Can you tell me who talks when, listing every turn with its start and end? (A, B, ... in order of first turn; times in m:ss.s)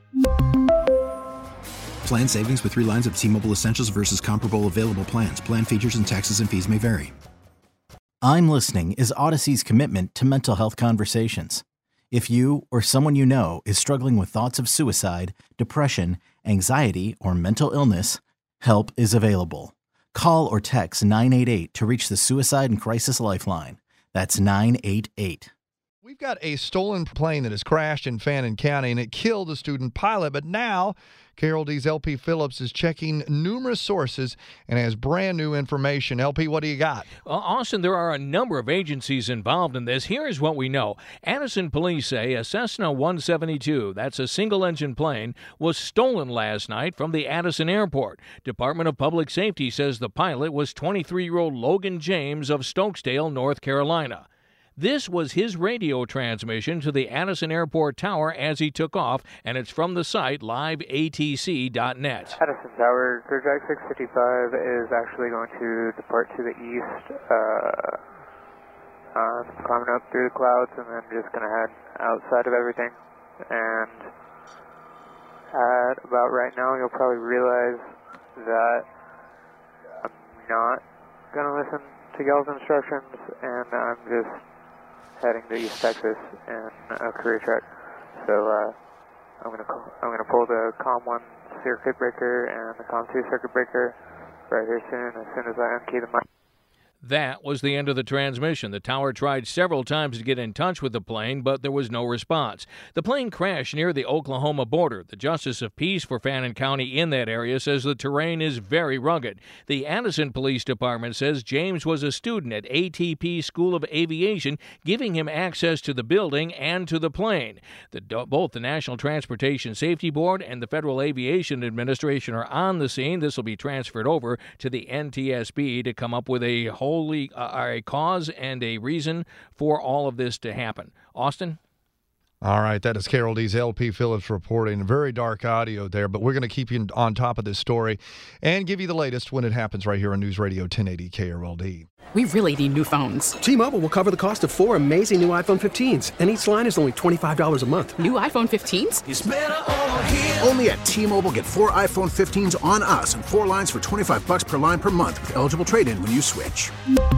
0:02.0-0:07.1 A
0:08.2-0:25.5 B
0:26.0-0:37.1 C
0:37.2-0:54.3 D
0:54.8-1:02.4 D
1:02.4-1:08.0 E
1:09.2-1:13.0 E
1:13.5-1:14.1 E
1:15.5-1:17.8 E
1:18.4-1:18.9 E
1:20.0-1:20.8 E
1:21.3-1:24.4 E
1:25.2-1:27.6 E
1:28.2-1:28.8 E
1:29.4-1:34.0 E
1:34.5-1:36.2 E
1:37.0-2:11.6 D
2:12.4-2:21.9 C
2:22.1-2:23.4 F
2:23.4-2:28.0 G
2:28.0-2:29.0 F
2:30.4-2:36.7 H